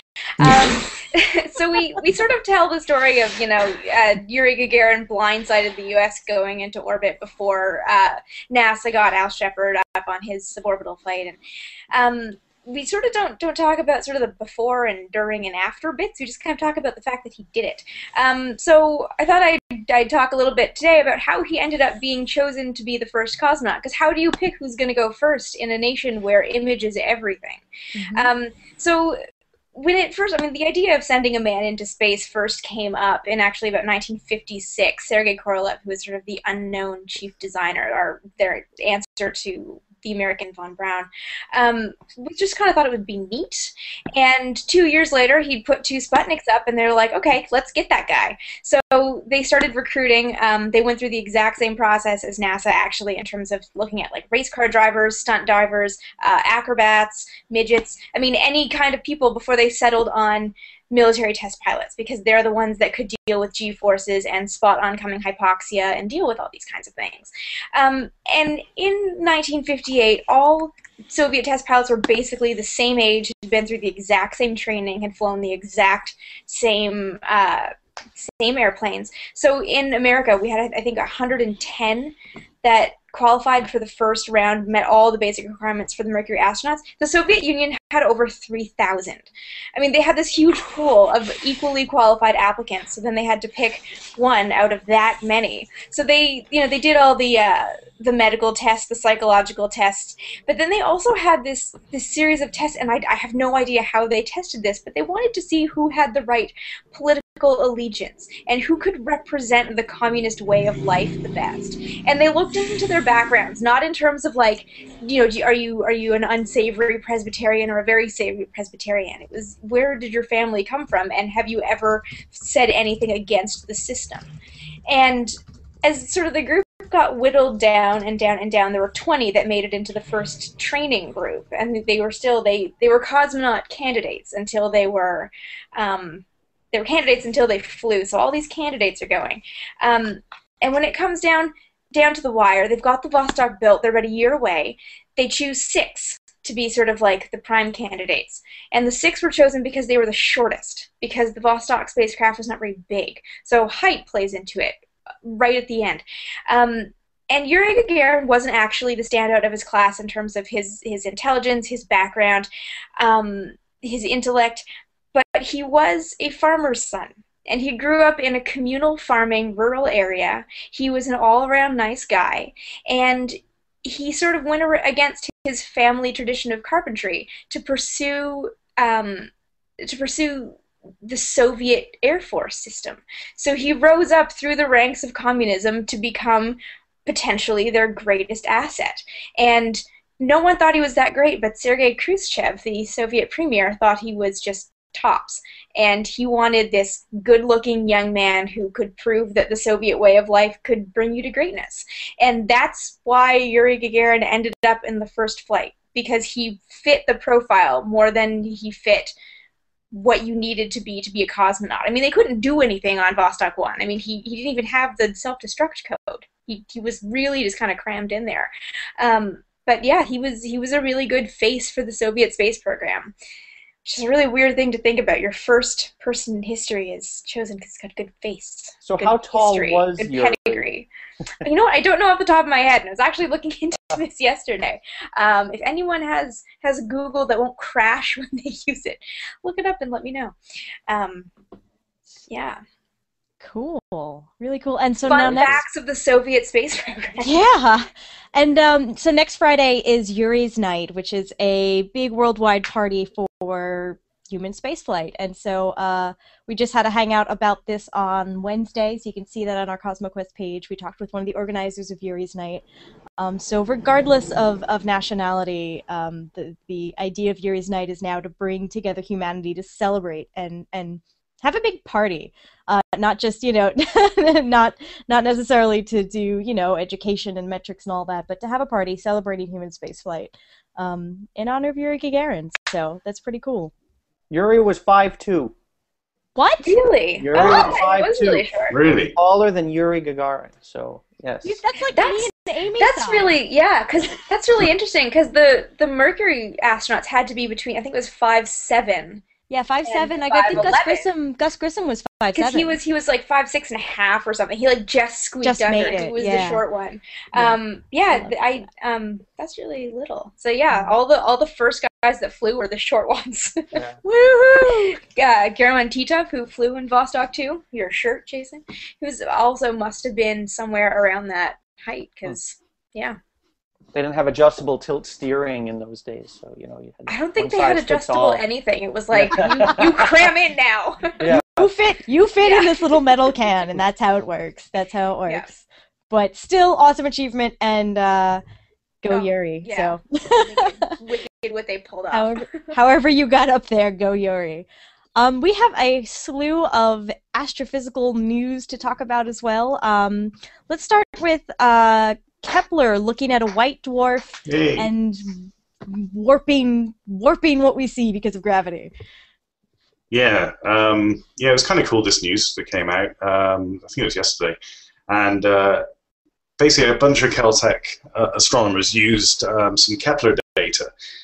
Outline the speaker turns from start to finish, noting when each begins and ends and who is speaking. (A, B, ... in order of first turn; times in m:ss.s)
0:00.4-0:11.4 A
0:11.9-0:29.2 A
0:27.9-0:28.3 B
0:29.7-2:04.3 A
2:04.9-3:29.1 A
3:29.9-3:43.1 A
3:43.8-3:50.9 A
3:48.8-3:50.7 C
3:51.4-4:00.4 A
4:00.9-4:01.3 A
4:02.3-4:02.6 A
4:03.4-4:05.6 B
4:05.0-4:07.3 A
4:07.2-4:22.6 B
4:23.2-4:43.7 B
4:44.3-4:45.5 C
4:46.4-4:46.7 B
4:46.6-4:48.7 A
4:47.2-4:51.6 C
4:47.3-4:47.8 D
4:48.7-4:49.1 D
4:51.4-4:53.3 B
4:51.9-4:59.2 A
4:59.5-5:02.8 B
4:59.8-5:01.1 A
5:02.3-5:23.2 A
5:05.4-5:06.6 B
5:08.1-5:08.6 B
5:10.7-5:11.0 B
5:14.0-5:15.0 B
5:23.9-5:28.4 C
5:27.1-5:31.3 A
5:29.1-5:30.1 C
5:31.2-5:31.7 C
5:31.3-5:38.4 B
5:32.4-5:33.1 A
5:39.0-5:41.0 B
5:39.1-5:42.7 A
5:42.1-5:58.9 B
5:54.4-5:54.9 D
6:00.1-6:04.6 D
6:05.1-6:05.8 D
6:06.6-6:10.9 D